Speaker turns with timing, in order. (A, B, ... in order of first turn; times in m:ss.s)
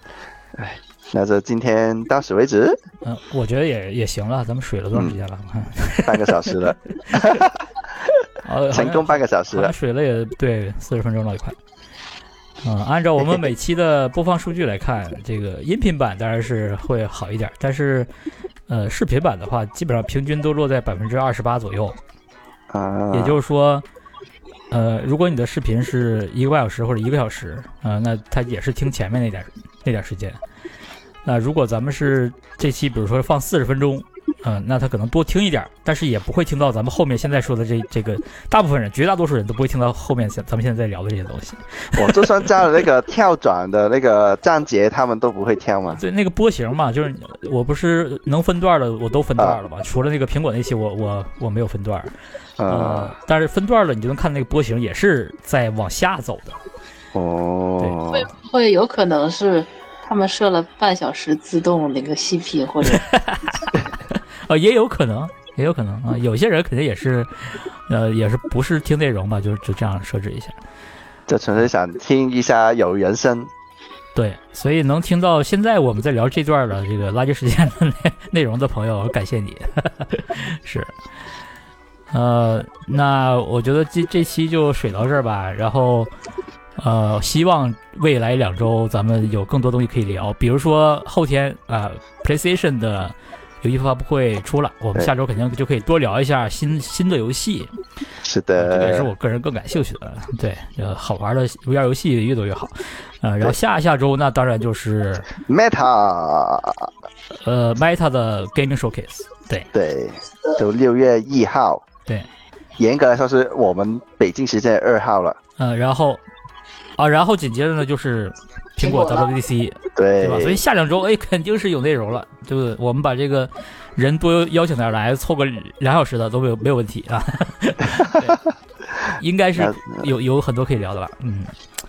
0:00.6-0:02.8 A
0:03.0-0:07.4 B
0:04.9-0:05.2 A
0:06.0-0:07.6 A
0:08.2-0:09.7 A
0:08.4-0:11.6 B
0:12.6-0:18.1 B
0:18.7-0:22.0 B
0:22.7-0:23.4 A
0:23.1-0:23.8 B
0:24.7-0:30.4 B
0:31.2-0:42.6 B
0:41.9-0:46.0 A
0:45.9-0:52.1 B
0:52.6-0:53.1 A
0:52.7-0:56.6 B
0:57.1-0:58.3 A
0:58.1-1:03.1 C
1:02.8-1:10.6 B
1:11.3-1:13.5 A
1:14.1-1:20.9 B
1:22.1-1:26.1 B
1:26.8-1:37.7 B
1:38.2-1:39.1 A
1:38.6-1:45.3 B
1:45.4-1:46.9 A
1:47.3-1:49.7 B
1:49.7-1:51.8 A
1:52.8-1:55.4 A
1:55.6-1:56.2 B
1:57.0-2:08.4 B
1:58.8-1:59.3 C
2:00.0-2:00.6 A
2:09.1-2:11.5 B
2:09.6-2:10.0 A